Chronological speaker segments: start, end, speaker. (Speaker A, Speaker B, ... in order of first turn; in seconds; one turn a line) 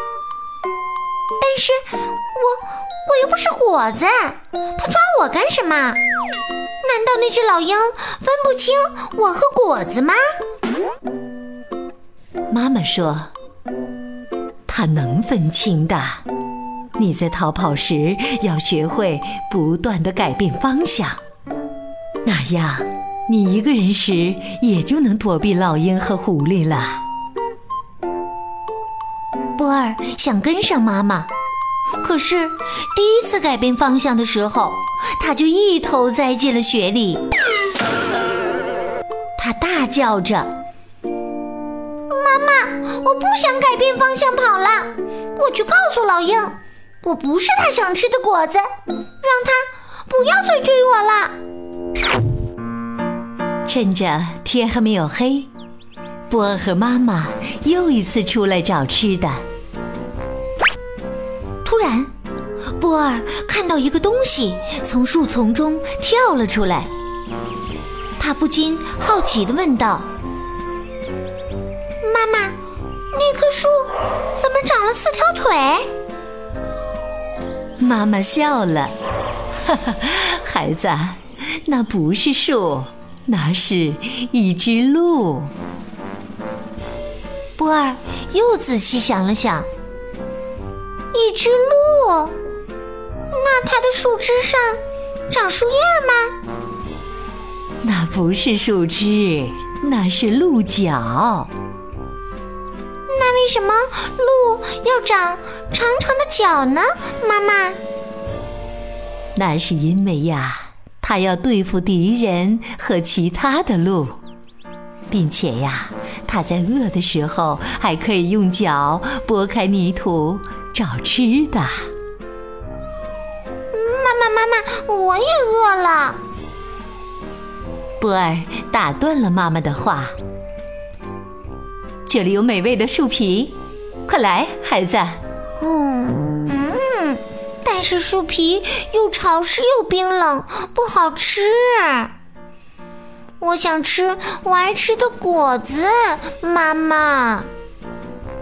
Speaker A: 1.4-6.0
Speaker A: 6.8-10.2
Speaker B: 12.5-13.3
Speaker B: 14.7-16.2
Speaker B: 17.0-21.2
Speaker B: 22.2-27.0
Speaker B: 29.6-31.3
Speaker B: 32.0-37.2
Speaker B: 39.4-40.5
Speaker A: 42.1-48.7
Speaker A: 49.2-51.4
Speaker B: 53.6-55.5
Speaker B: 56.3-59.4
Speaker B: 61.6-62.1
Speaker B: 62.8-66.9
Speaker B: 68.2-70.1
Speaker A: 72.0-72.6
Speaker A: 73.1-75.9
Speaker B: 77.8-79.0
Speaker B: 79.6-85.5
Speaker B: 87.6-89.7
Speaker A: 91.1-92.4
Speaker A: 93.3-96.4
Speaker B: 97.8-101.5
Speaker A: 103.1-107.8
Speaker B: 109.4-114.2
Speaker B: 115.1-121.9
Speaker A: 123.7-126.2
Speaker B: 128.0-130.2
Speaker B: 132.1-133.6
Speaker B: 134.1-135.2
Speaker A: 135.6-142.1
Speaker A: 143.4-147.5